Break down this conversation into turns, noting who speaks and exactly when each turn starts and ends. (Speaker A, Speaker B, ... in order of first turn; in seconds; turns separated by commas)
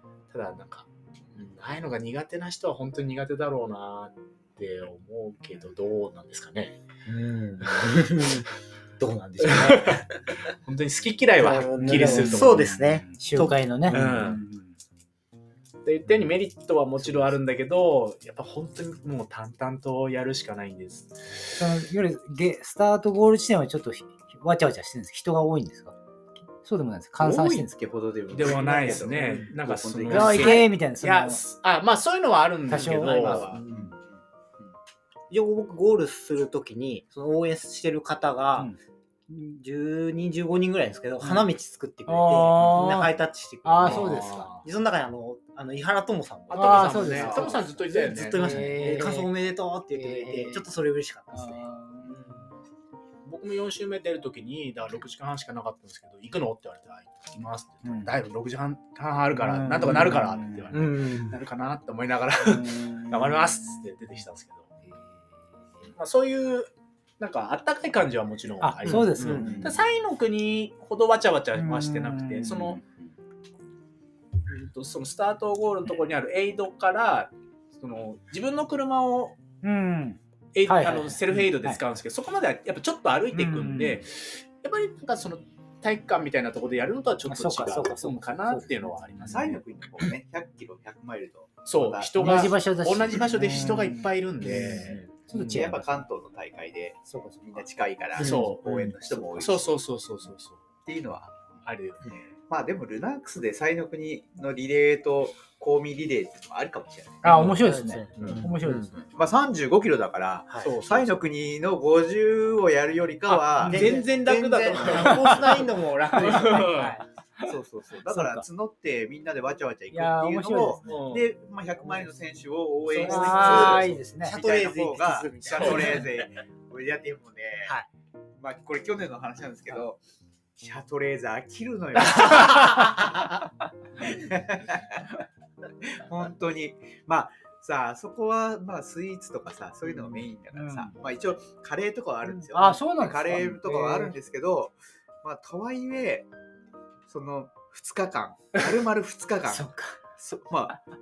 Speaker A: 0.3-6.8, Speaker B: 7.0-8.4, Speaker B: 9.0-9.9, Speaker A: 9.4-10.0, Speaker A: 10.6-12.8, Speaker B: 11.4-14.4, Speaker C: 11.5-14.6, Speaker A: 13.9-14.4, Speaker A: 15.8-21.7, Speaker C: 21.6-25.9, Speaker C: 26.6-27.8, Speaker D: 27.2-30.7, Speaker A: 28.3-33.6, Speaker C: 28.5-29.2, Speaker C: 30.1-31.4, Speaker C: 32.7-33.5, Speaker D: 33.0-34.0, Speaker B: 33.3-33.8, Speaker B: 35.3-38.7, Speaker B: 39.3-52.4, Speaker C: 41.2-41.5, Speaker C: 42.1-43.1, Speaker C: 43.6-44.6, Speaker A: 43.8-44.6, Speaker A: 46.5-48.7, Speaker C: 46.5-47.6, Speaker C: 48.3-49.3, Speaker C: 49.9-50.7, Speaker C: 51.3-52.4, Speaker A: 53.2-64.7, Speaker C: 57.8-58.1, Speaker C: 59.4-61.2, Speaker B: 60.7-61.3, Speaker C: 62.5-63.1, Speaker A: 65.9-72.8, Speaker C: 68.6-69.7, Speaker D: 68.9-69.8, Speaker C: 71.5-72.8, Speaker A: 74.5-79.4, Speaker C: 79.6-81.8, Speaker A: 80.5-89.6, Speaker C: 83.3-84.0, Speaker C: 87.2-89.3, Speaker D: 89.2-92.6, Speaker A: 91.7-95.0, Speaker C: 92.2-95.9, Speaker D: 94.7-99.8, Speaker C: 97.1-97.5, Speaker A: 98.2-100.6, Speaker D: 100.8-101.3, Speaker A: 101.6-102.3, Speaker D: 102.5-107.5, Speaker C: 107.2-108.9, Speaker B: 107.7-108.0, Speaker A: 108.2-108.5, Speaker D: 108.2-114.0, Speaker A: 110.6-111.3, Speaker A: 113.3-117.0, Speaker B: 113.6-117.0, Speaker D: 117.4-127.7, Speaker C: 119.9-120.8, Speaker A: 120.8-121.3, Speaker C: 122.9-124.4, Speaker B: 123.0-126.0, Speaker A: 123.2-124.0, Speaker A: 125.5-126.1, Speaker D: 128.4-130.0, Speaker D: 130.6-133.4, Speaker D: 134.0-135.2, Speaker D: 135.8-146.3, Speaker C: 140.5-141.0, Speaker C: 142.3-144.1, Speaker D: 147.1-149.7, Speaker C: 149.5-150.0, Speaker D: 150.3-150.8